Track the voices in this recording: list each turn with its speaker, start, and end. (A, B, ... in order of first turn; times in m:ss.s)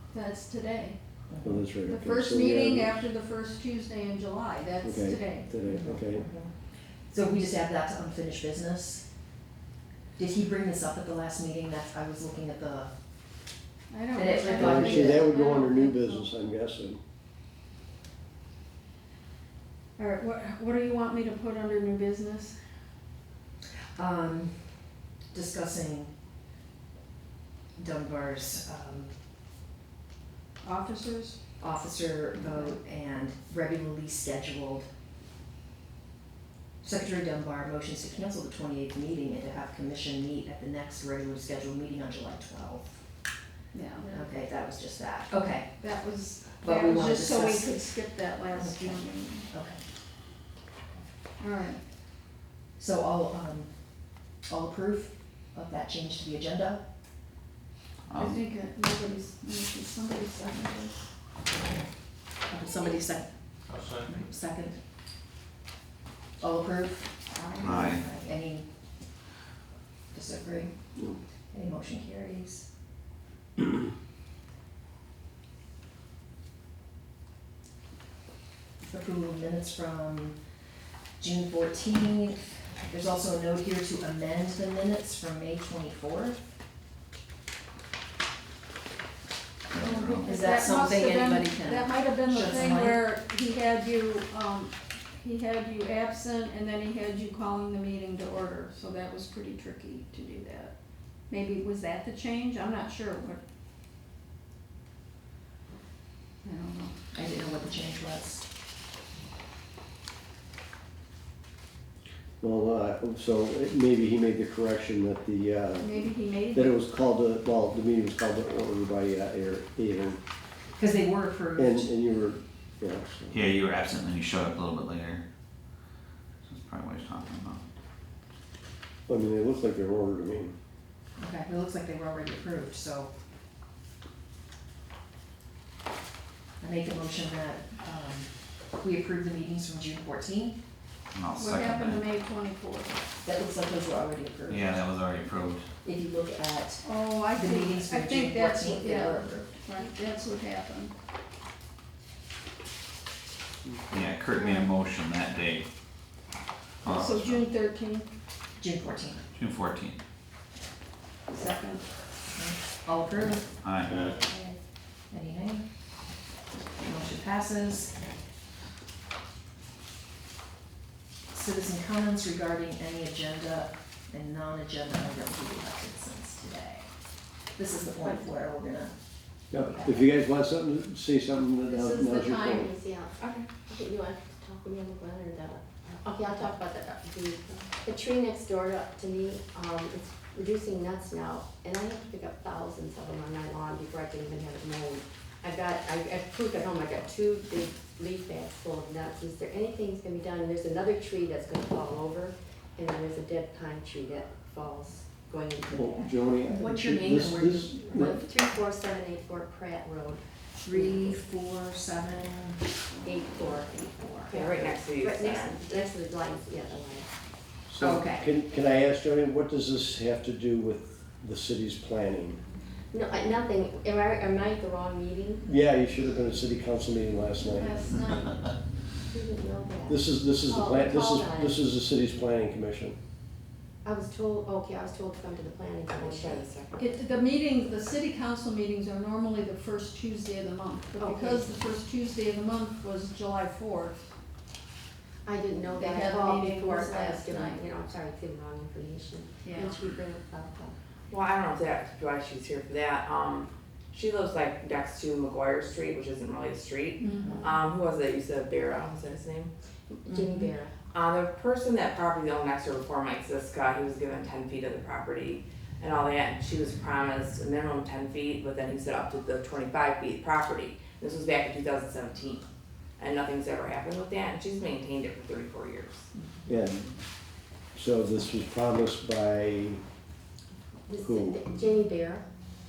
0:00.1-0:01.0 A
0:01.3-0:01.7 B
0:01.4-0:03.1 C
0:01.8-0:05.5 A
0:04.8-0:06.3 C
0:05.6-0:09.2 B
0:10.2-0:13.4 B
0:13.9-0:16.3 A
0:14.2-0:15.3 B
0:14.6-0:17.0 C
0:20.0-0:22.6 A
0:24.0-0:26.1 B
0:27.8-0:29.3 B
0:30.6-0:31.4 A
0:31.6-0:34.9 B
0:32.4-0:32.8 A
0:36.8-0:43.4 B
0:43.7-0:44.3 A
0:44.0-0:49.9 B
0:45.8-0:49.5 A
0:51.4-0:51.9 A
0:52.8-0:56.8 B
0:58.1-0:58.4 D
0:58.2-1:01.1 A
1:02.4-1:04.8 B
1:06.4-1:08.7 B
1:07.3-1:07.9 A
1:07.6-1:08.1 D
1:10.1-1:12.7 B
1:18.8-1:20.4 B
1:21.2-1:26.5 B
1:29.7-1:30.3 D
1:29.8-1:43.4 A
1:30.2-1:33.0 B
1:46.4-1:47.0 A
1:47.1-1:48.5 B
1:52.4-2:00.2 C
1:55.8-1:56.8 A
2:00.7-2:01.9 B
2:01.6-2:03.5 C
2:03.3-2:05.2 D
2:06.5-2:07.6 D
2:09.1-2:10.6 C
2:11.2-2:13.1 B
2:16.6-2:20.6 B
2:21.1-2:22.1 D
2:21.4-2:23.0 A
2:23.2-2:24.8 B
2:24.5-2:25.7 D
2:25.8-2:29.6 B
2:26.8-2:30.9 A
2:33.9-2:35.7 D
2:34.3-2:34.7 A
2:36.8-2:37.5 D
2:36.9-2:38.1 A
2:38.6-2:39.3 B
2:39.4-2:40.0 D
2:41.3-2:41.9 A
2:42.3-2:43.5 B
2:43.6-2:44.1 D
2:43.8-2:44.1 C
2:44.1-2:44.6 E
2:45.1-2:45.7 B
2:46.8-2:48.0 B
2:51.3-2:57.0 B
2:57.5-2:59.0 B
2:59.5-3:02.7 C
2:59.5-3:00.0 B
3:01.7-3:02.7 A
3:02.3-3:26.7 E
3:03.2-3:03.5 F
3:25.7-3:28.2 C
3:26.5-3:28.2 B
3:27.8-3:31.2 E
3:30.6-3:32.7 B
3:33.0-3:37.1 E
3:34.3-3:35.6 F
3:37.7-3:42.4 C
3:37.8-3:38.3 B
3:42.9-3:45.5 E
3:45.5-3:47.9 C
3:47.6-3:48.5 A
3:49.1-3:51.5 E
3:49.9-3:53.0 C
3:53.8-3:56.9 E
3:56.1-3:56.4 F
3:56.8-4:04.1 A
4:01.0-4:01.5 E
4:05.2-4:10.8 E
4:05.8-4:07.7 A
4:09.4-4:09.8 A
4:11.1-4:19.5 F
4:17.0-4:17.6 A
4:17.2-4:17.5 B
4:20.0-4:20.7 E
4:20.1-4:20.5 B
4:20.9-4:32.4 F
4:33.0-4:36.1 F
4:36.5-4:36.9 C
4:37.7-4:39.8 C
4:40.9-4:42.2 E
4:41.0-4:41.4 C